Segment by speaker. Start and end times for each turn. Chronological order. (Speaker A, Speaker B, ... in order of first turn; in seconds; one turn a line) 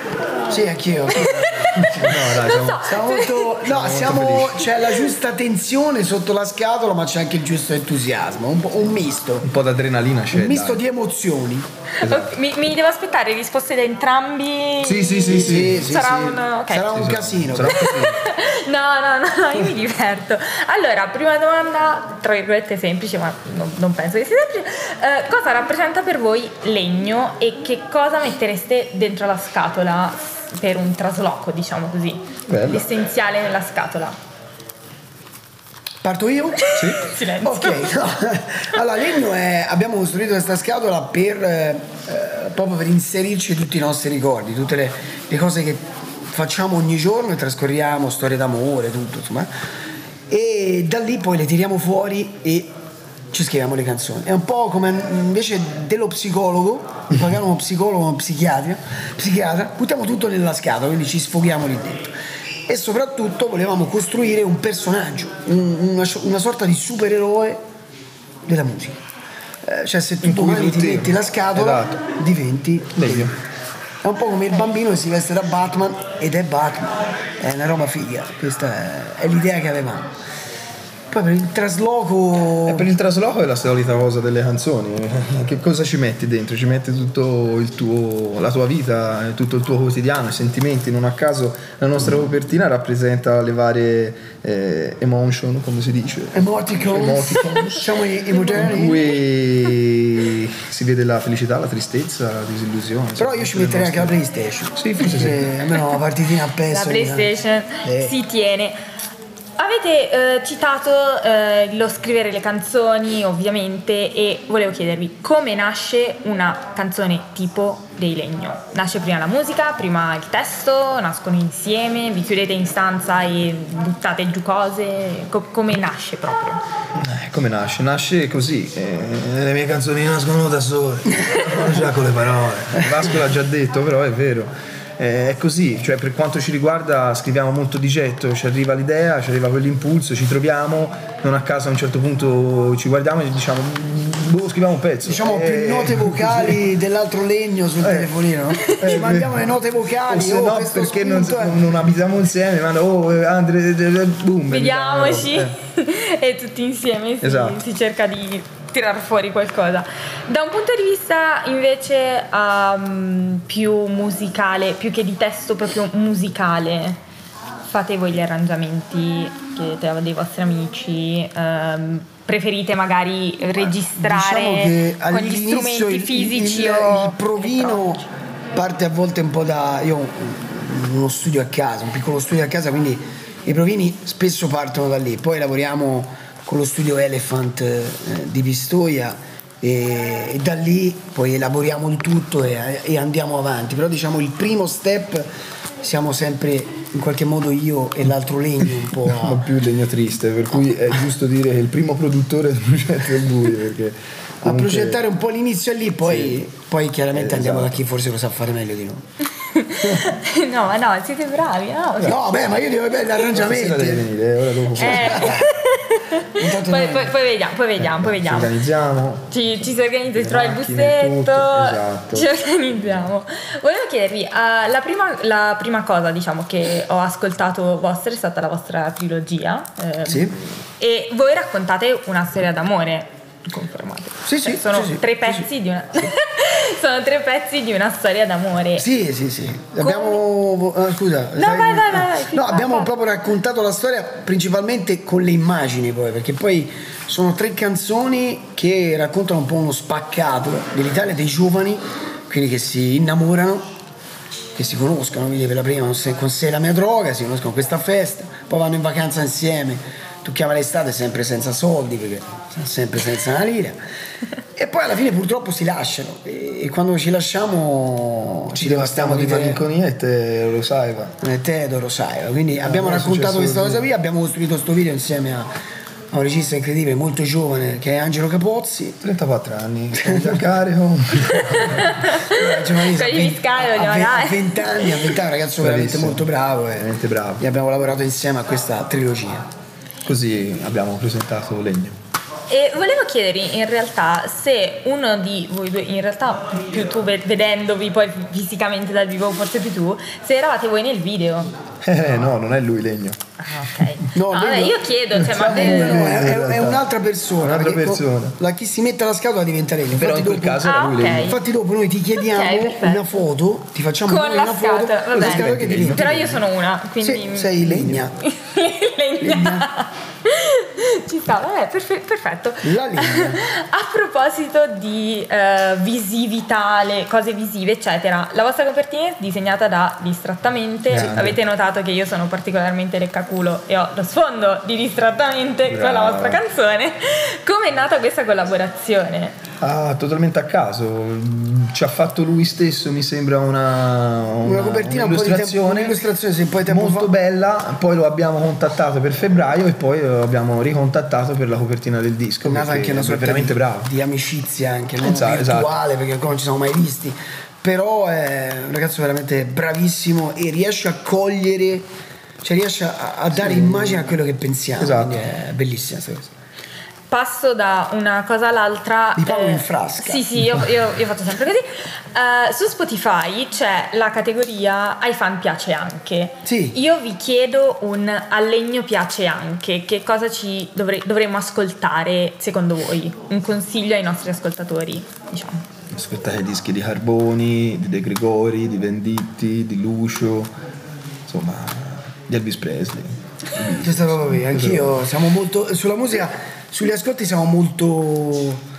Speaker A: 0.5-9.5
Speaker B: 1.1-3.6
Speaker C: 1.8-2.9
Speaker C: 3.6-4.7
Speaker C: 9.4-10.8
Speaker A: 10.3-11.7
Speaker B: 12.0-17.0
Speaker C: 12.0-12.3
Speaker C: 14.8-15.9
Speaker A: 15.3-17.9
Speaker C: 16.8-18.2
Speaker B: 17.7-34.1
Speaker C: 32.5-32.9
Speaker A: 36.0-49.5
Speaker B: 36.7-37.9
Speaker C: 36.7-37.0
Speaker A: 50.3-52.7
Speaker A: 53.3-62.1
Speaker A: 62.7-67.6
Speaker A: 68.5-69.0
Speaker A: 69.6-73.3
Speaker C: 70.2-72.0
Speaker C: 72.9-73.3
Speaker A: 74.0-80.1
Speaker A: 81.1-82.9
Speaker C: 82.7-97.9
Speaker A: 96.3-99.0
Speaker B: 98.3-99.1
Speaker C: 98.5-104.2
Speaker A: 103.2-107.3
Speaker C: 104.7-105.5
Speaker B: 106.7-108.8
Speaker A: 107.8-108.1
Speaker B: 109.6-126.6
Speaker C: 127.0-146.6
Speaker A: 145.0-151.6
Speaker C: 147.8-148.1
Speaker B: 148.5-149.0
Speaker C: 148.7-149.5
Speaker C: 150.0-155.5
Speaker B: 154.5-167.0
Speaker C: 157.2-157.6
Speaker B: 167.6-178.1
Speaker A: 173.7-195.3
Speaker A: 195.8-199.4
Speaker C: 199.0-205.0
Speaker A: 204.4-209.0
Speaker C: 206.0-206.4
Speaker C: 207.1-207.8
Speaker B: 209.4-212.2
Speaker A: 209.8-210.1
Speaker A: 212.0-214.1
Speaker C: 213.3-215.4
Speaker A: 214.7-215.4
Speaker B: 214.8-218.5
Speaker A: 216.3-217.1
Speaker C: 217.8-219.6
Speaker B: 219.3-238.8
Speaker C: 220.1-222.3
Speaker A: 230.0-230.3
Speaker A: 234.2-235.5
Speaker A: 238.8-253.7
Speaker B: 239.8-240.2
Speaker B: 241.3-242.9
Speaker A: 254.5-263.8
Speaker A: 264.6-269.6
Speaker C: 268.5-271.1
Speaker A: 271.2-275.5
Speaker C: 272.5-273.9
Speaker A: 276.1-279.0
Speaker C: 279.0-282.0
Speaker A: 280.0-280.4
Speaker B: 281.3-285.1
Speaker A: 282.3-289.5
Speaker C: 285.6-287.4
Speaker C: 290.0-292.0
Speaker B: 292.5-301.5
Speaker C: 301.8-303.2
Speaker B: 303.4-306.3
Speaker A: 304.1-310.7
Speaker C: 305.1-306.9
Speaker C: 307.4-308.4
Speaker C: 309.9-311.4
Speaker B: 310.6-311.4
Speaker A: 311.2-316.2
Speaker B: 312.2-313.0
Speaker B: 314.1-339.4
Speaker C: 315.1-316.4
Speaker A: 317.0-318.1
Speaker C: 317.6-318.0
Speaker A: 319.2-319.7
Speaker A: 322.6-323.4
Speaker C: 330.9-331.4
Speaker C: 335.7-336.4
Speaker C: 339.6-346.0
Speaker A: 344.4-347.1
Speaker C: 346.7-353.9
Speaker A: 352.4-361.9
Speaker C: 355.0-355.8
Speaker A: 362.4-366.3
Speaker C: 363.3-364.1
Speaker C: 364.8-365.2
Speaker B: 367.1-385.6
Speaker A: 369.2-370.3
Speaker A: 376.4-376.8
Speaker C: 385.9-390.5
Speaker C: 391.3-395.0
Speaker A: 393.8-398.6